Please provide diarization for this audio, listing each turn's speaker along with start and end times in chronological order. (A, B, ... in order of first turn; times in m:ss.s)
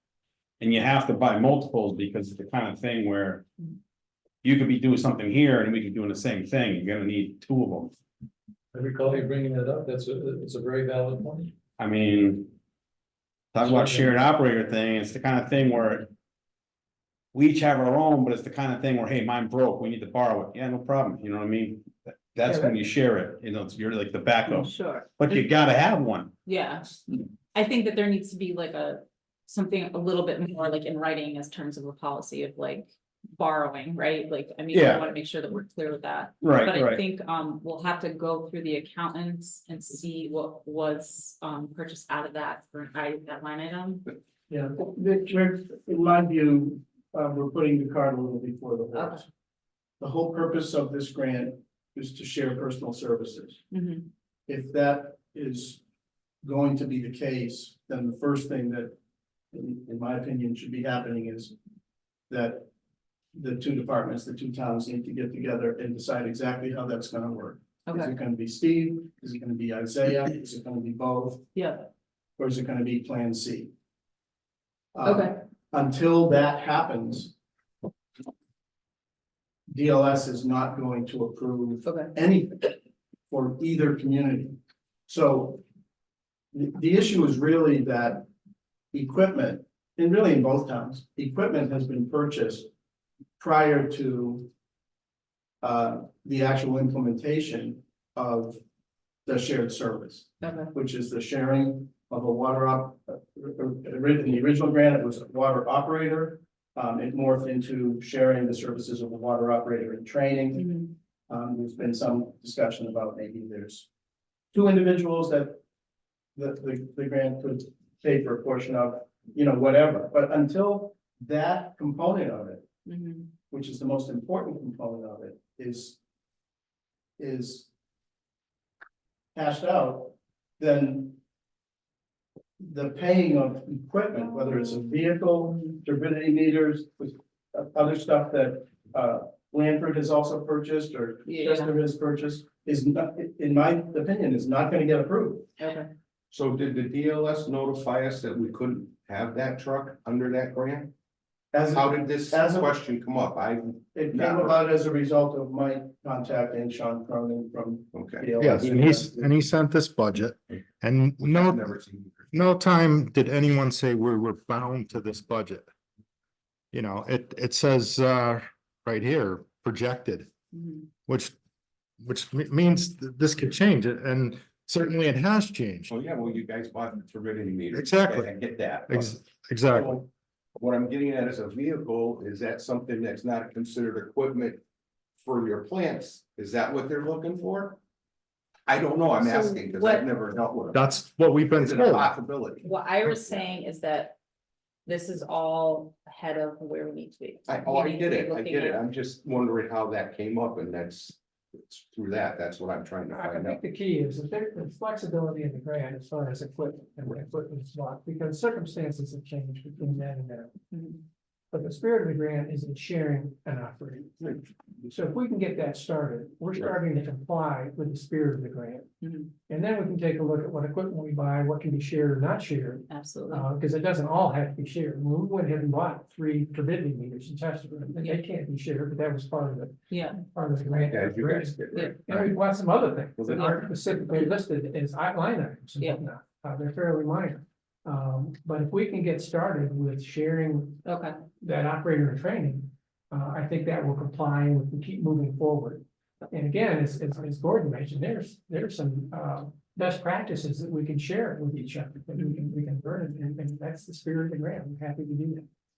0:00.6-0:03.5 A
0:04.4-0:08.0 A
0:08.8-0:10.5 B
0:11.1-0:11.5 B
0:11.8-0:12.5 A
0:13.5-0:16.1 A
0:17.3-0:26.3 A
0:24.5-0:25.4 C
0:26.5-0:26.9 C
0:27.5-0:44.1 C
0:34.7-0:35.0 A
0:36.4-0:37.0 A
0:44.5-0:49.3 D
0:48.9-0:49.2 C
0:50.0-0:53.6 D
0:53.7-0:54.1 C
0:54.5-0:55.8 D
0:56.4-0:58.9 D
0:59.5-1:01.5 D
1:02.3-1:02.7 D
1:03.3-1:11.5 D
1:07.9-1:08.1 C
1:11.6-1:11.8 C
1:12.4-1:13.7 D
1:14.9-1:17.3 D
1:15.0-1:15.4 C
1:19.7-1:22.8 D
1:21.8-1:22.1 C
1:23.3-1:25.6 D
1:26.5-1:28.3 D
1:28.9-1:32.7 D
1:33.4-1:34.5 D
1:35.6-1:38.6 D
1:39.3-1:50.7 D
1:40.4-1:40.7 C
1:50.5-1:50.9 C
1:51.3-1:53.9 D
1:54.5-1:55.6 D
1:56.4-2:02.7 D
2:02.9-2:03.3 C
2:03.5-2:06.0 D
2:07.2-2:07.7 D
2:09.4-2:11.2 D
2:12.6-2:25.5 D
2:14.1-2:15.8 C
2:21.3-2:21.7 C
2:25.6-2:25.9 C
2:26.3-2:30.9 E
2:31.5-2:32.7 D
2:31.7-2:34.6 E
2:33.9-2:39.3 D
2:37.9-2:38.4 E
2:38.4-2:41.7 F
2:41.2-2:42.3 E
2:42.3-2:45.7 F
2:46.7-2:50.3 F
2:50.5-2:50.9 C
2:51.1-2:51.3 F
2:52.0-2:55.9 F
2:55.9-2:59.1 E
2:57.7-2:58.3 F
2:58.9-3:00.0 F
2:59.7-3:00.0 E
3:00.6-3:04.6 E
3:05.2-3:07.8 E
3:08.7-3:10.9 E
3:09.2-3:10.1 C
3:10.7-3:12.1 F
3:11.5-3:13.4 E
3:12.6-3:14.2 C
3:14.9-3:18.8 C
3:17.5-3:23.6 E
3:23.1-3:30.5 G
3:30.7-3:31.0 C
3:31.5-3:38.9 G
3:39.0-3:39.3 C
3:39.5-4:00.8 G
3:42.9-3:43.5 C
3:48.0-3:48.2 C
3:49.9-3:50.2 C
3:50.8-3:52.4 E
3:51.7-3:52.0 C
3:53.2-3:53.6 E
3:53.3-3:54.3 C
4:00.9-4:01.2 C
4:01.4-4:15.5 G
4:12.2-4:12.5 C